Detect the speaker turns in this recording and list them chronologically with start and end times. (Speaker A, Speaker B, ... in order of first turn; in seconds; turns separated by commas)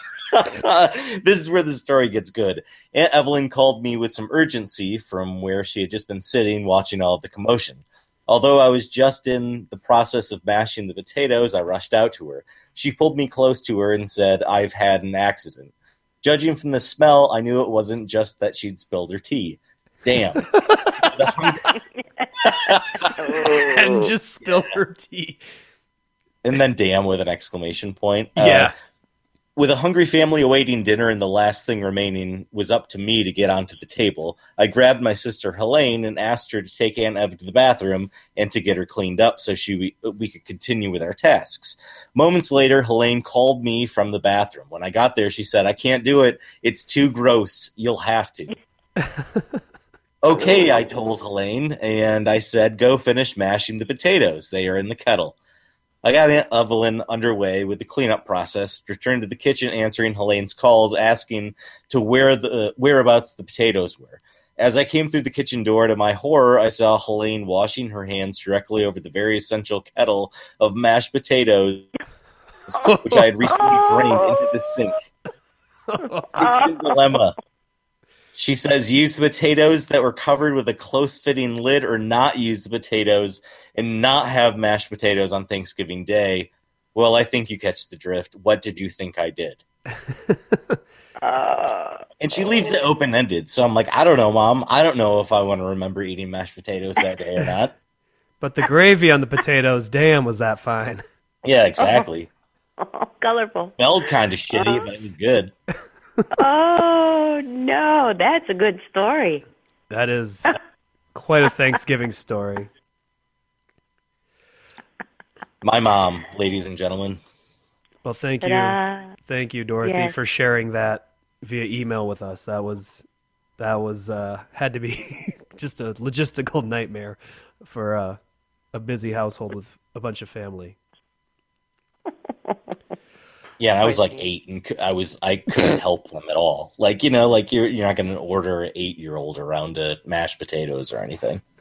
Speaker A: 0.3-20.5, Speaker B: 20.5-21.5, Speaker A: 21.0-21.7, Speaker C: 22.2-24.1, Speaker A: 22.4-23.3, Speaker B: 23.3-25.4, Speaker A: 26.4-28.7, Speaker B: 28.4-28.7, Speaker A: 29.6-48.5, Speaker A: 50.2-55.4, Speaker A: 56.0-71.9, Speaker B: 72.7-73.3, Speaker A: 73.0-75.0, Speaker C: 73.6-74.4, Speaker B: 75.9-76.4, Speaker A: 76.4-77.3, Speaker C: 76.4-76.8, Speaker A: 78.3-89.6, Speaker B: 90.1-90.8, Speaker C: 91.2-92.0, Speaker A: 92.2-97.7, Speaker B: 98.4-101.0, Speaker A: 101.4-102.3, Speaker C: 101.8-102.1, Speaker C: 102.8-103.8, Speaker A: 103.8-105.5, Speaker C: 104.5-104.9, Speaker C: 106.3-109.5, Speaker B: 109.9-110.6, Speaker B: 111.1-112.7, Speaker A: 115.6-117.2, Speaker B: 118.0-123.1, Speaker C: 118.4-119.1, Speaker C: 119.8-120.1, Speaker B: 123.6-128.2, Speaker B: 128.7-130.8, Speaker A: 133.6-141.4, Speaker C: 133.8-134.2